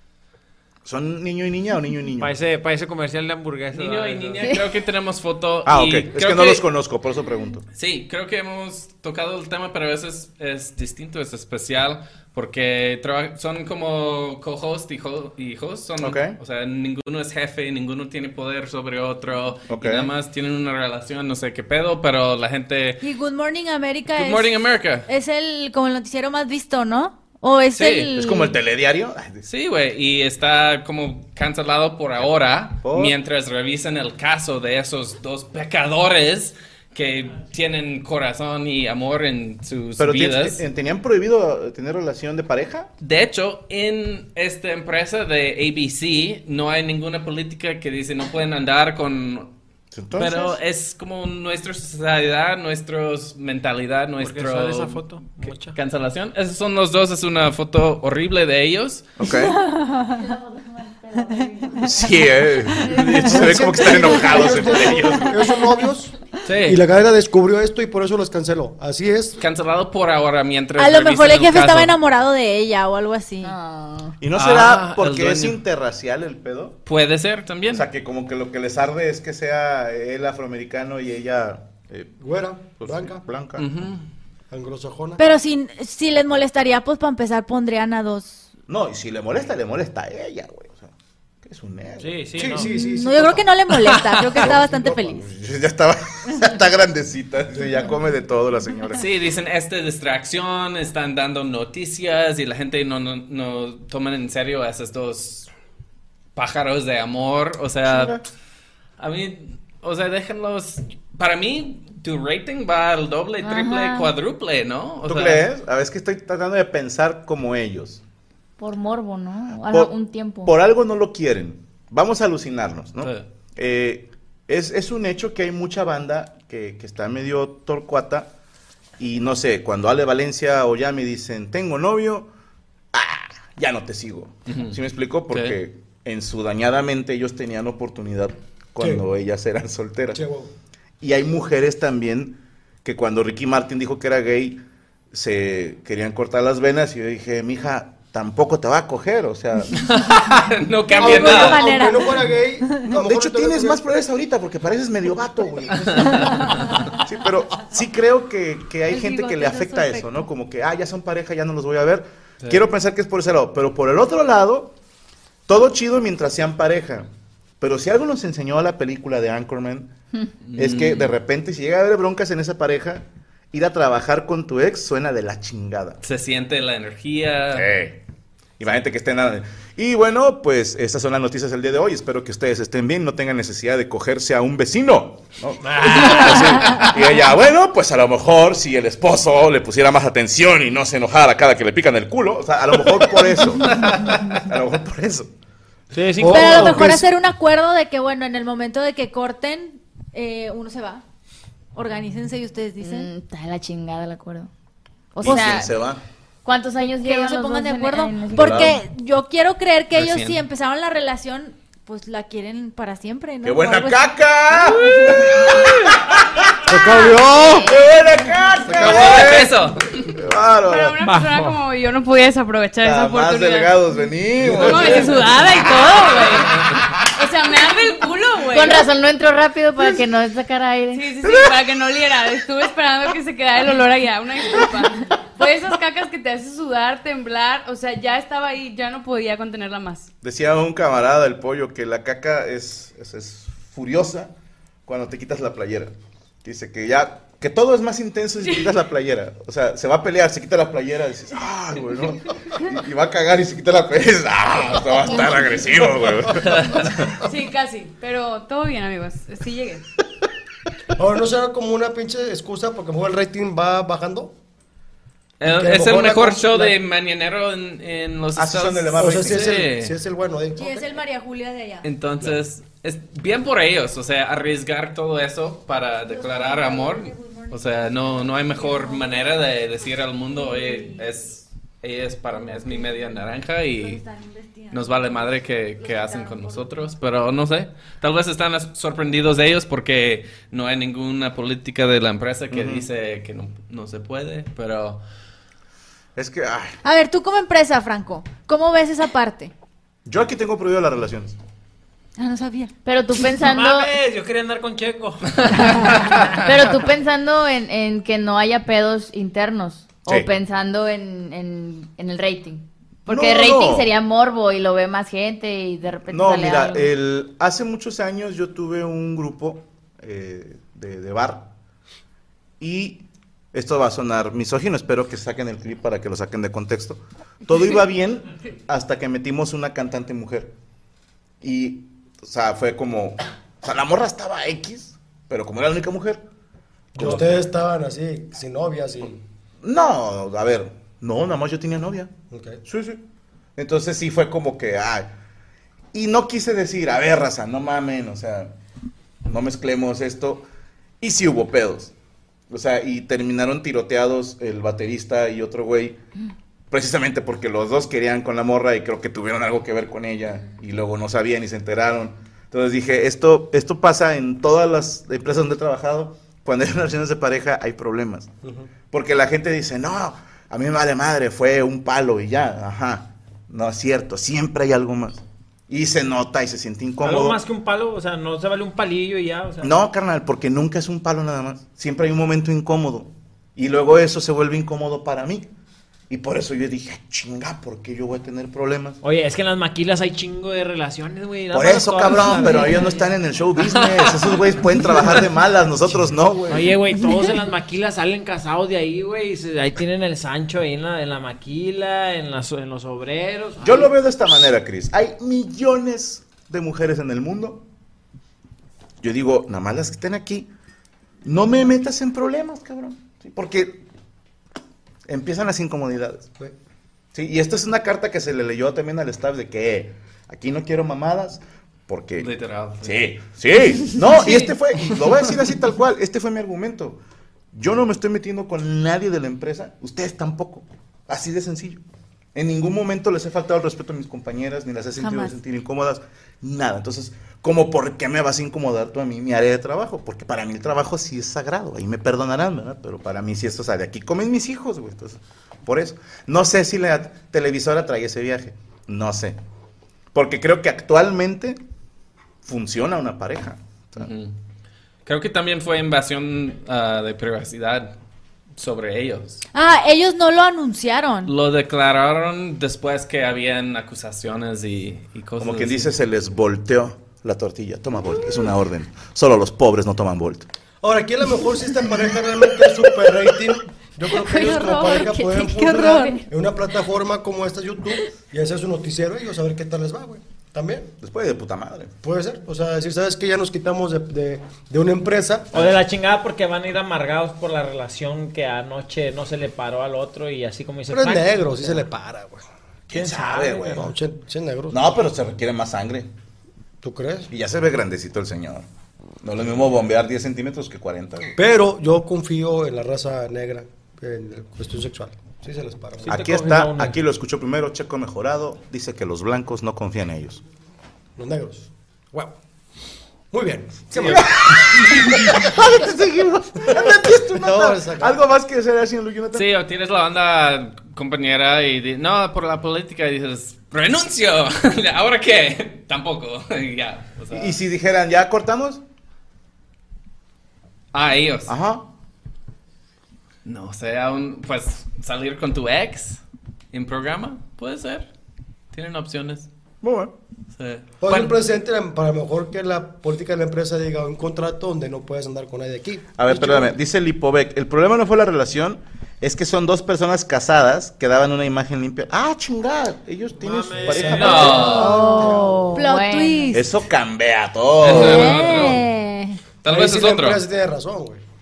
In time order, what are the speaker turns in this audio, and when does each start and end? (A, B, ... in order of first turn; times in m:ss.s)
0:00.8-0:02.4 A
0:02.2-0:04.5 B
0:03.7-0:06.7 C
0:05.7-0:07.6 A
0:07.8-0:23.0 C
0:16.0-0:16.4 A
0:19.7-0:20.1 A
0:23.0-0:24.6 D
0:24.1-0:25.1 C
0:25.1-0:28.6 D
0:27.7-0:28.1 C
0:28.2-0:29.4 A
0:29.5-0:40.6 C
0:32.8-0:33.2 A
0:40.0-0:42.9 A
0:43.0-0:49.5 C
0:49.9-0:50.5 A
0:50.1-0:59.1 C
0:54.2-0:55.8 B
0:59.2-0:59.6 A
1:00.1-1:02.0 E
1:01.8-1:05.4 A
1:02.8-1:03.6 C
1:02.9-1:03.2 E
1:03.3-1:06.1 F
1:04.5-1:04.8 E
1:06.5-1:06.8 C
1:06.6-1:09.4 F
1:09.4-1:12.0 C
1:10.8-1:13.6 D
1:13.4-1:14.2 E
1:14.2-1:16.8 A
1:14.3-1:15.6 C
1:16.9-1:17.9 C
1:17.7-1:22.2 A
1:22.2-1:23.2 F
1:22.8-1:23.9 A
1:23.6-1:24.1 C
1:24.5-1:25.2 F
1:25.2-1:28.5 D
1:28.7-1:30.9 A
1:31.4-1:32.7 A
1:32.0-1:32.7 B
1:32.4-1:33.5 F
1:32.6-1:35.3 D
1:34.4-1:39.0 A
1:34.5-1:34.7 F
1:39.0-1:45.5 C
1:46.4-1:48.2 C
1:47.9-1:48.2 A
1:49.0-1:55.5 C
1:53.4-1:54.1 E
1:55.0-1:58.0 A
1:58.6-2:00.6 E
1:59.6-2:08.3 A
2:03.0-2:03.3 C
2:09.0-2:12.3 A
2:12.9-2:20.2 A
2:14.5-2:14.8 C
2:15.3-2:15.6 C
2:18.8-2:19.0 F
2:20.1-2:20.5 F
2:21.0-2:24.6 A
2:25.1-2:29.8 A
2:29.7-2:31.7 C
2:30.9-2:32.9 D
2:31.0-2:33.8 F
2:32.9-2:35.9 A
2:35.5-2:36.0 F
2:35.8-2:36.7 C
2:36.2-2:36.6 D
2:37.0-2:44.7 A
2:38.9-2:40.3 D
2:45.5-2:47.1 A
2:47.6-2:49.9 A
2:50.5-2:51.2 C
2:50.6-2:56.0 A
2:56.0-2:57.7 C
2:57.5-2:58.0 A
2:58.6-3:15.3 A
3:05.6-3:06.9 B
3:15.9-3:16.9 B
3:16.2-3:17.1 F
3:16.3-3:21.0 D
3:21.8-3:23.1 D
3:22.8-3:24.5 E
3:25.2-3:25.7 E
3:25.2-3:26.0 A
3:25.2-3:25.6 D
3:26.4-3:28.8 E
3:27.0-3:35.5 D
3:28.4-3:28.8 A
3:29.9-3:30.4 C
3:33.4-3:36.8 A
3:36.7-3:37.7 F
3:37.1-3:37.8 E
3:37.6-3:41.0 A
3:38.7-3:40.2 C
3:40.6-3:43.8 G
3:41.0-3:41.5 B
3:42.8-3:46.2 A
3:44.5-3:45.1 F
3:44.5-3:48.8 G
3:48.5-3:51.1 E
3:50.9-4:00.1 G
4:00.2-4:04.3 A
4:04.9-4:17.1 A
4:16.4-4:17.0 C
4:17.2-4:19.8 G
4:21.0-4:24.4 F
4:25.4-4:29.9 C
4:25.5-4:26.8 F
4:28.4-4:29.7 A
4:29.0-4:30.9 F
4:30.6-4:31.9 D
4:31.8-4:44.0 C
4:36.1-4:39.1 D
4:40.3-4:41.0 D
4:42.3-4:43.2 D
4:43.8-4:46.9 D
4:44.7-4:55.0 C
4:52.5-4:52.9 A
4:56.2-4:56.8 A
4:56.8-4:59.5 D
5:00.1-5:01.4 A
5:02.2-5:02.7 D
5:02.8-5:03.9 E
5:03.4-5:05.8 B
5:05.9-5:16.9 E
5:10.1-5:10.3 A
5:13.1-5:13.9 A
5:16.1-5:21.5 A
5:22.6-5:30.5 A
5:31.4-5:36.2 A
5:37.0-5:39.2 F
5:37.0-5:37.4 A
5:39.6-5:42.1 A
5:42.3-5:42.6 F
5:42.6-5:43.0 A
5:43.6-5:45.1 A
5:45.9-5:48.5 A
5:49.3-5:50.5 A
5:51.0-5:51.9 A
5:52.5-5:56.0 A
5:56.7-6:08.3 A
6:08.4-6:08.7 F
6:08.9-6:17.4 A
6:17.0-6:19.7 B
6:19.6-6:25.5 A
6:26.1-6:29.0 A
6:29.0-6:33.2 B
6:31.5-6:36.8 A
6:35.9-6:43.9 B
6:43.6-6:47.6 A
6:49.0-6:50.5 A
6:51.2-6:53.8 A
6:55.1-6:56.3 A
6:57.1-7:02.3 A
7:02.2-7:03.1 C
7:02.8-7:07.0 A
7:07.5-7:11.8 A
7:12.4-7:29.4 A
7:15.0-7:15.4 D
7:30.1-7:31.6 A
7:32.4-7:34.1 A
7:34.0-7:34.3 C
7:35.1-7:37.9 C
7:38.6-7:39.4 C
7:39.5-7:41.3 D
7:41.3-7:45.9 C
7:45.4-7:50.5 A
7:50.8-8:00.9 F
7:54.2-7:56.2 D
8:01.0-8:01.9 A
8:02.0-8:05.7 F
8:05.6-8:11.8 B
8:10.9-8:12.5 F
8:12.9-8:13.8 A
8:13.0-8:13.8 B
8:13.6-8:14.8 F
8:14.7-8:16.1 A
8:16.8-8:17.3 F
8:17.3-8:18.7 A
8:19.2-8:21.4 A
8:21.4-8:26.2 F
8:26.0-8:27.0 B
8:26.1-8:30.4 A
8:31.2-8:32.4 F
8:33.3-8:35.5 F
8:33.9-8:39.5 A
8:36.7-8:38.2 F
8:39.3-8:47.6 C
8:47.3-8:48.8 A
8:50.9-8:51.6 C
8:51.5-8:51.9 A
8:53.4-8:56.2 C
8:56.7-8:58.1 C
8:58.7-8:59.5 C
8:59.8-9:00.1 A
9:00.6-9:01.3 C
9:01.0-9:06.8 F
9:06.2-9:14.8 A
9:13.4-9:14.7 B
9:13.8-9:15.6 F
9:14.1-9:15.0 C
9:14.5-9:16.7 D
9:14.6-9:16.5 E
9:16.5-9:18.4 A
9:17.8-9:18.9 C
9:17.8-9:19.4 D
9:19.6-9:20.4 C
9:19.7-9:21.2 F